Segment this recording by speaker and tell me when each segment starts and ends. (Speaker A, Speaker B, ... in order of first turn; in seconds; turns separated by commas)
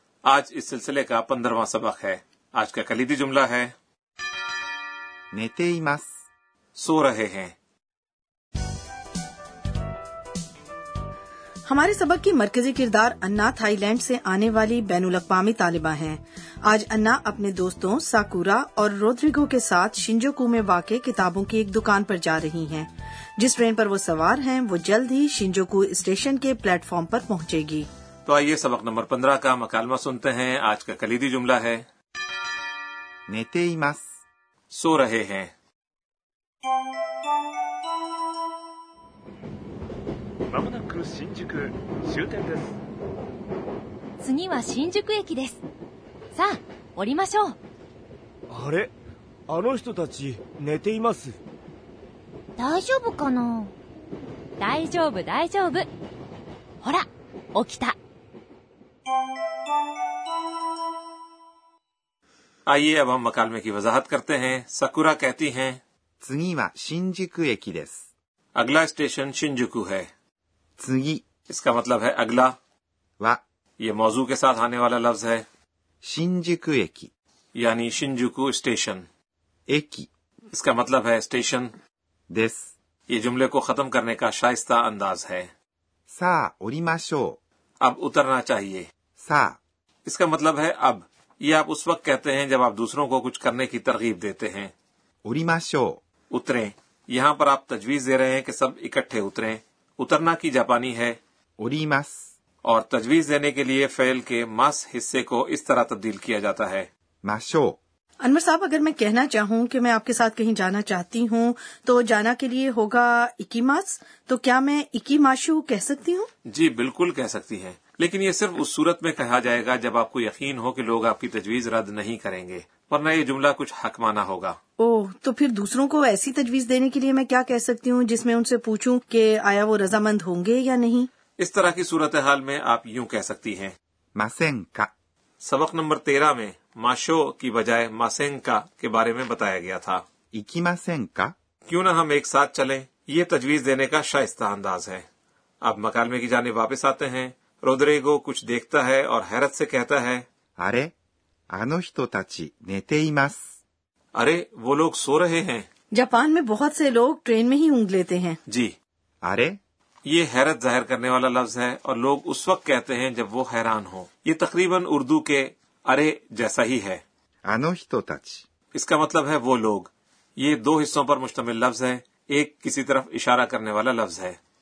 Speaker A: 0.2-3.7, Speaker B: 5.3-6.1, Speaker A: 6.8-7.5, Speaker C: 11.7-27.9, Speaker A: 28.2-31.9, Speaker B: 33.3-34.0, Speaker A: 34.7-35.5, Speaker D: 40.5-42.7, Speaker E: 44.2-45.6, Speaker E: 46.3-47.5, Speaker F: 48.5-48.9, Speaker F: 49.5-51.3, Speaker E: 52.6-53.7, Speaker E: 54.6-55.9, Speaker E: 56.8-57.9, Speaker A: 62.7-65.8, Speaker B: 66.2-68.0, Speaker A: 68.5-70.1, Speaker B: 70.8-71.2, Speaker A: 71.5-72.5, Speaker A: 73.8-75.4, Speaker B: 76.0-77.1, Speaker A: 77.5-79.0, Speaker B: 79.7-80.1, Speaker A: 80.5-81.7, Speaker B: 82.3-82.7, Speaker A: 83.1-85.5, Speaker B: 86.1-87.4, Speaker A: 87.8-88.9, Speaker B: 89.2-89.5, Speaker A: 90.0-94.7, Speaker B: 95.2-96.0, Speaker A: 96.3-101.2, Speaker B: 101.6-102.2, Speaker A: 102.6-106.9, Speaker B: 107.2-107.8, Speaker C: 108.2-116.3, Speaker A: 116.5-124.6, Speaker C: 124.8-131.1, Speaker A: 131.4-133.7, Speaker B: 134.2-134.9, Speaker A: 135.4-140.0, Speaker B: 140.3-141.3, Speaker A: 141.7-145.0, Speaker A: 145.6-150.2, Speaker B: 150.6-150.9, Speaker B: 151.5-153.4, Speaker A: 154.1-155.7, Speaker C: 155.9-158.4, Speaker A: 158.5-158.7, Speaker B: 159.2-159.6, Speaker A: 160.1-167.0, Speaker B: 167.5-168.4, Speaker A: 168.7-174.4